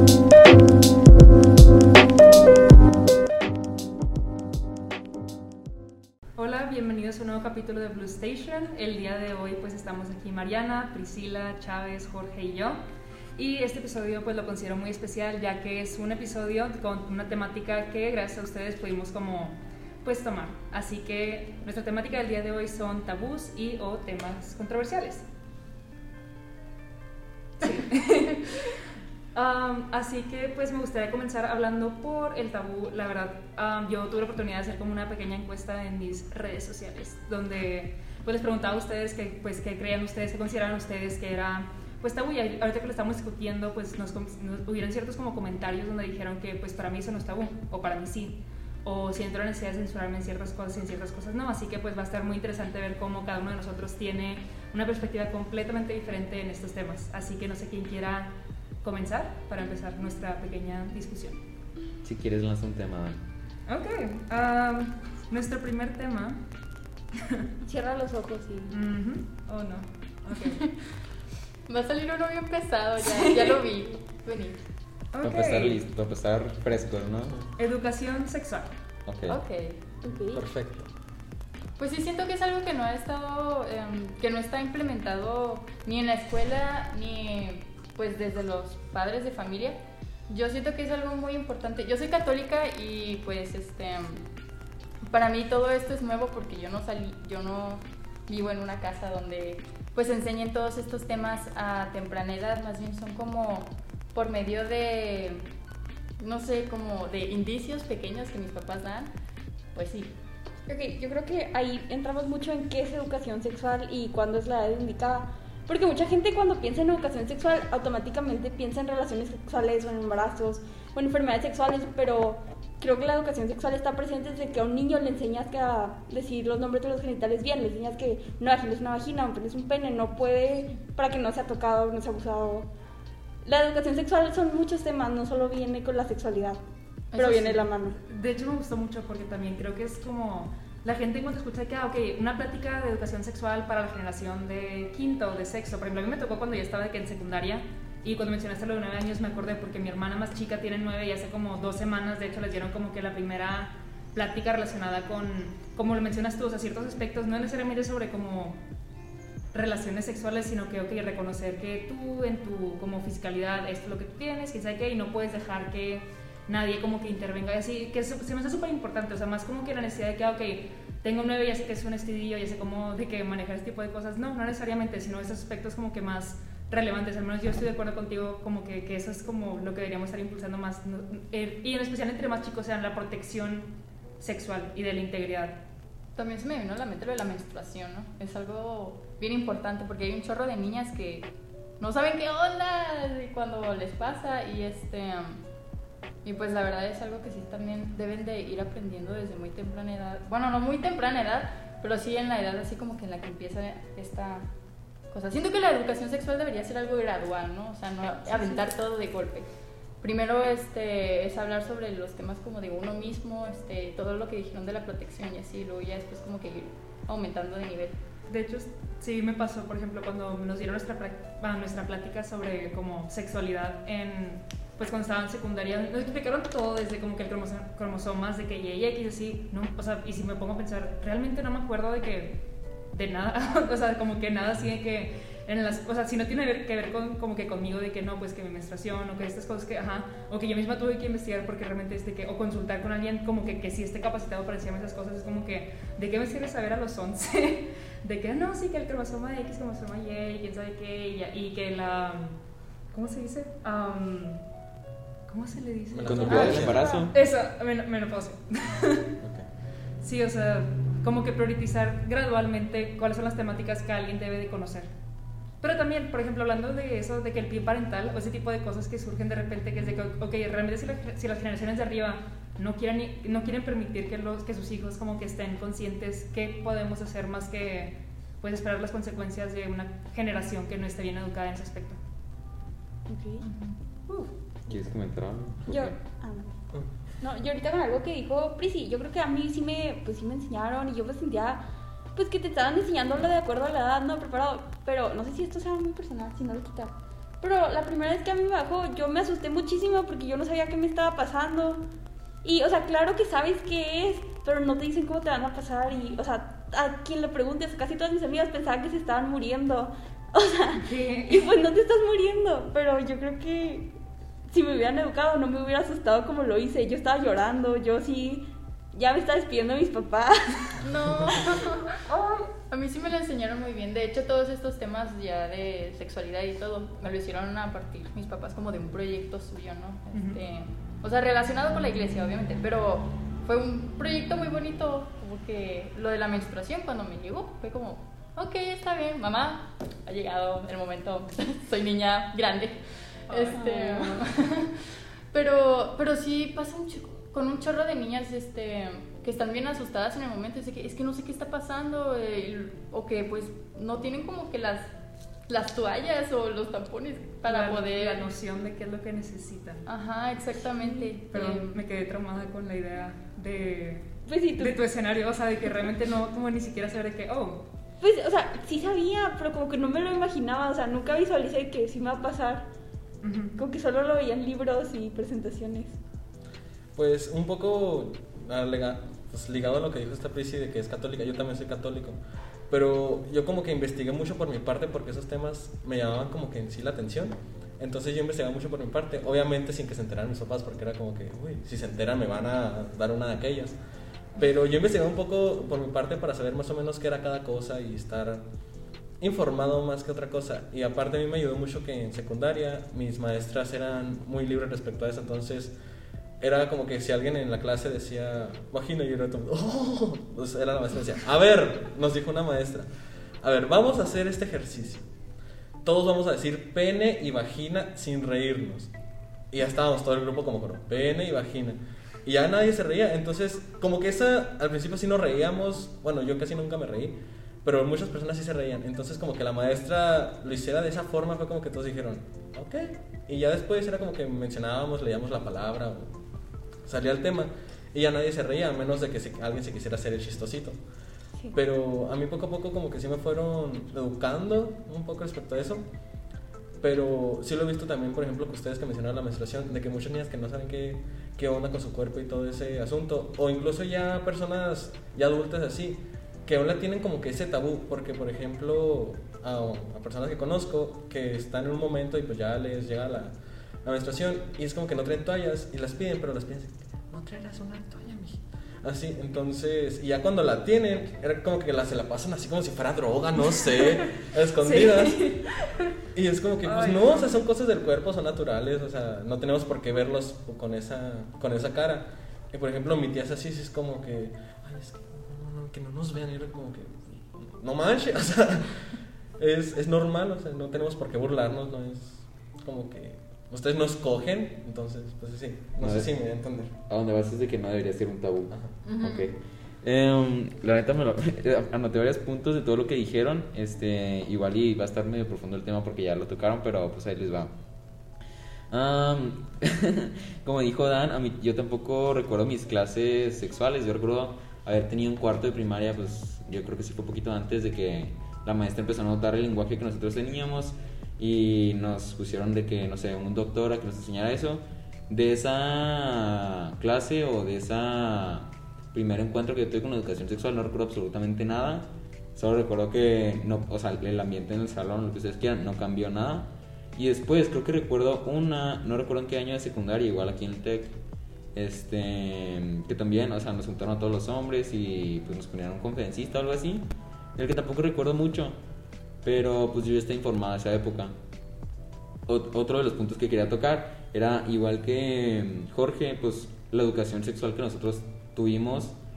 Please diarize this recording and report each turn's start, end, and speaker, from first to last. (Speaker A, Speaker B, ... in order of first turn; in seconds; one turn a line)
Speaker A: 6.3-12.8
Speaker A: 13.3-25.2
Speaker A: 27.6-28.8
Speaker A: 29.3-61.4
Speaker B: 62.0-63.2
Speaker A: 63.7-66.4
Speaker A: 67.1-67.5
Speaker C: 67.6-68.8
Speaker A: 68.7-70.6
Speaker D: 71.7-74.6
Speaker A: 75.1-75.8
Speaker B: 75.2-77.3
Speaker A: 77.6-78.7
Speaker B: 79.1-79.4
Speaker D: 79.3-79.8
Speaker C: 80.0-80.4
Speaker E: 80.3-80.9
Speaker D: 81.8-94.2
Speaker D: 95.0-105.5
Speaker D: 106.2-109.1
Speaker D: 109.7-110.1
Speaker C: 110.7-132.7
Speaker C: 133.4-136.6
Speaker D: 137.1-137.6
Speaker C: 137.1-138.0
Speaker A: 138.1-158.6
Speaker A: 159.5-185.6
Speaker D: 186.2-195.4
Speaker D: 196.2-204.5
Speaker D: 205.1-209.5
Speaker D: 210.0-218.0
Speaker A: 218.3-232.4
Speaker A: 232.9-252.4
Speaker A: 252.9-254.4
Speaker A: 255.3-259.1
Speaker E: 255.9-256.8
Speaker B: 256.1-257.1
Speaker C: 256.2-257.1
Speaker E: 259.2-259.5
Speaker A: 260.0-264.9
Speaker A: 265.6-282.0
Speaker C: 283.1-283.5
Speaker B: 284.7-286.0
Speaker C: 285.7-286.6
Speaker C: 287.2-291.6
Speaker C: 292.1-301.8
Speaker C: 302.4-313.9
Speaker A: 310.8-311.5
Speaker C: 314.5-321.4
Speaker D: 320.8-322.0
Speaker C: 322.1-322.5
Speaker D: 322.7-354.9
Speaker A: 330.1-330.4
Speaker A: 343.3-344.2
Speaker D: 355.5-358.2
Speaker A: 357.4-359.9
Speaker D: 359.9-361.8
Speaker A: 361.3-367.7
Speaker C: 364.3-364.8
Speaker C: 368.0-372.7
Speaker A: 373.2-373.5
Speaker C: 373.6-376.0
Speaker E: 376.9-382.2
Speaker E: 382.7-393.8
Speaker E: 394.4-398.4
Speaker E: 399.2-405.7
Speaker E: 406.4-412.9
Speaker E: 413.4-415.1
Speaker E: 415.8-418.9
Speaker E: 419.5-436.1
Speaker E: 436.8-440.8
Speaker E: 441.5-445.8
Speaker E: 446.8-475.3
Speaker A: 474.6-475.5
Speaker E: 476.1-496.7
Speaker A: 476.6-477.4
Speaker B: 495.8-496.1
Speaker B: 496.9-507.5
Speaker D: 498.8-499.3
Speaker B: 508.7-541.0
Speaker B: 541.5-548.6
Speaker B: 549.2-551.1
Speaker B: 552.3-559.0